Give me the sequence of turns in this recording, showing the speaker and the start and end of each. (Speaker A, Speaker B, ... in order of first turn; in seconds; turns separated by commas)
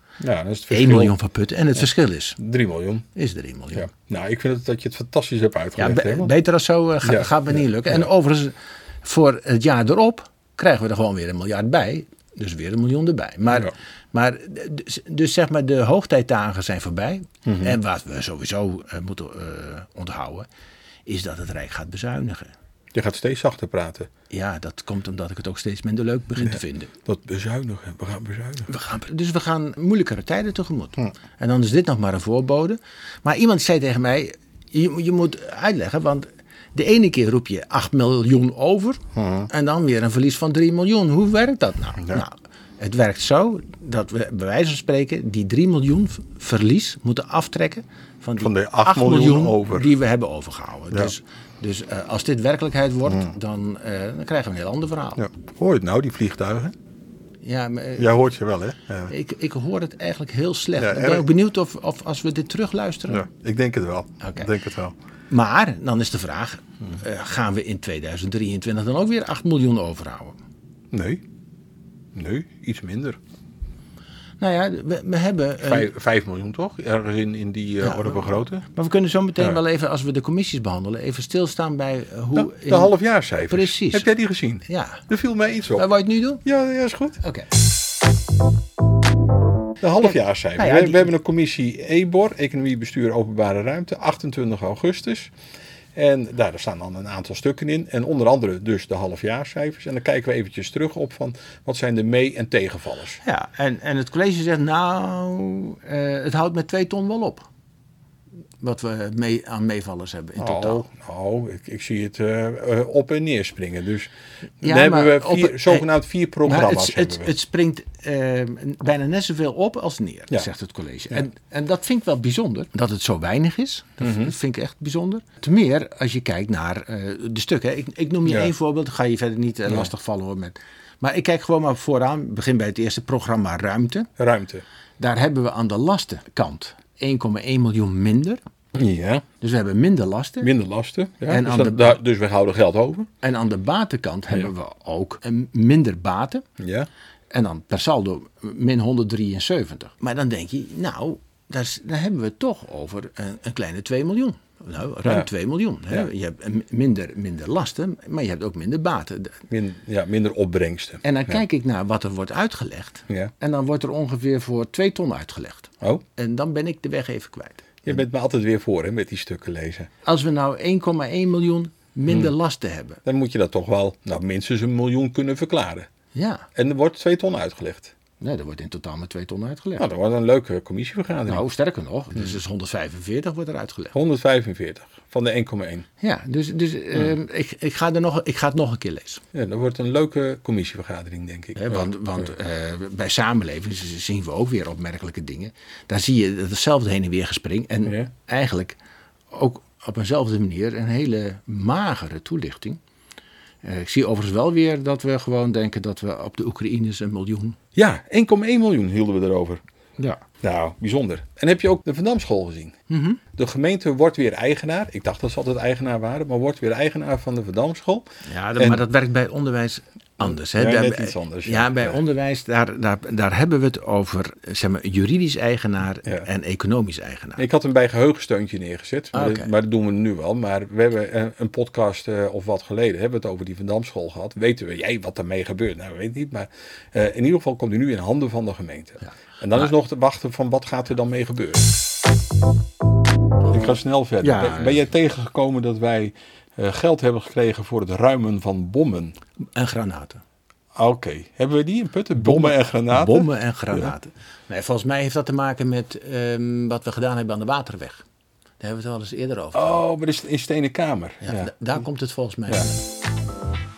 Speaker A: 0.2-1.1, Speaker B: 0.7-2.4, Speaker A: 2.4-3.0, Speaker B: 3.1-3.9, Speaker A: 3.7-6.3, Speaker B: 5.8-20.5, Speaker A: 7.0-8.0, Speaker A: 17.4-17.8, Speaker B: 21.1-22.5, Speaker A: 22.9-24.1, Speaker B: 24.3-26.9, Speaker A: 26.4-28.7, Speaker B: 28.7-55.2, Speaker A: 39.1-39.5, Speaker A: 48.4-49.9, Speaker A: 53.0-53.3, Speaker A: 55.2-56.7, Speaker B: 57.4-58.1, Speaker A: 58.0-59.1, Speaker B: 59.1-63.2, Speaker A: 60.8-61.2, Speaker A: 63.1-64.9, Speaker B: 64.2-64.5, Speaker B: 65.3-70.4, Speaker A: 70.9-71.2, Speaker A: 72.1-73.2, Speaker B: 74.4-75.9, Speaker A: 75.6-78.6, Speaker B: 77.8-82.9, Speaker A: 82.3-85.8, Speaker B: 83.5-84.1, Speaker B: 84.7-85.0, Speaker B: 85.8-86.4, Speaker A: 86.4-87.2, Speaker B: 87.2-87.5, Speaker A: 89.8-95.3, Speaker B: 90.6-91.1, Speaker A: 95.9-103.2, Speaker B: 103.2-107.5, Speaker B: 108.6-110.8, Speaker A: 110.4-117.3, Speaker B: 114.6-115.9, Speaker B: 116.4-134.1, Speaker A: 124.0-124.3, Speaker A: 134.2-134.6, Speaker B: 135.0-138.4, Speaker A: 138.7-139.2, Speaker B: 139.4-140.5, Speaker A: 140.4-143.1, Speaker B: 141.3-142.0, Speaker B: 143.2-146.5, Speaker A: 146.6-146.9, Speaker B: 147.3-159.4, Speaker A: 159.5-161.4, Speaker B: 161.0-168.0, Speaker A: 167.8-169.9, Speaker B: 170.0-173.0, Speaker A: 172.1-172.3, Speaker A: 173.0-175.9, Speaker B: 176.1-176.4, Speaker A: 176.6-177.9, Speaker B: 178.2-179.9, Speaker A: 179.8-181.4, Speaker B: 181.3-183.9, Speaker A: 183.9-185.8, Speaker B: 186.0-189.2, Speaker A: 189.3-191.9, Speaker B: 191.6-198.8, Speaker B: 199.3-202.8, Speaker B: 203.6-207.6, Speaker A: 207.8-209.6, Speaker A: 210.4-212.8, Speaker B: 212.9-213.2, Speaker A: 213.3-218.1, Speaker B: 218.2-227.4, Speaker A: 218.6-218.8, Speaker A: 220.2-222.0, Speaker A: 227.4-241.7, Speaker B: 229.1-229.5, Speaker A: 243.5-249.1, Speaker B: 244.2-244.8, Speaker B: 249.5-250.2, Speaker A: 250.7-253.9, Speaker B: 252.2-258.0, Speaker B: 258.6-259.8, Speaker A: 259.5-261.5, Speaker B: 261.2-262.8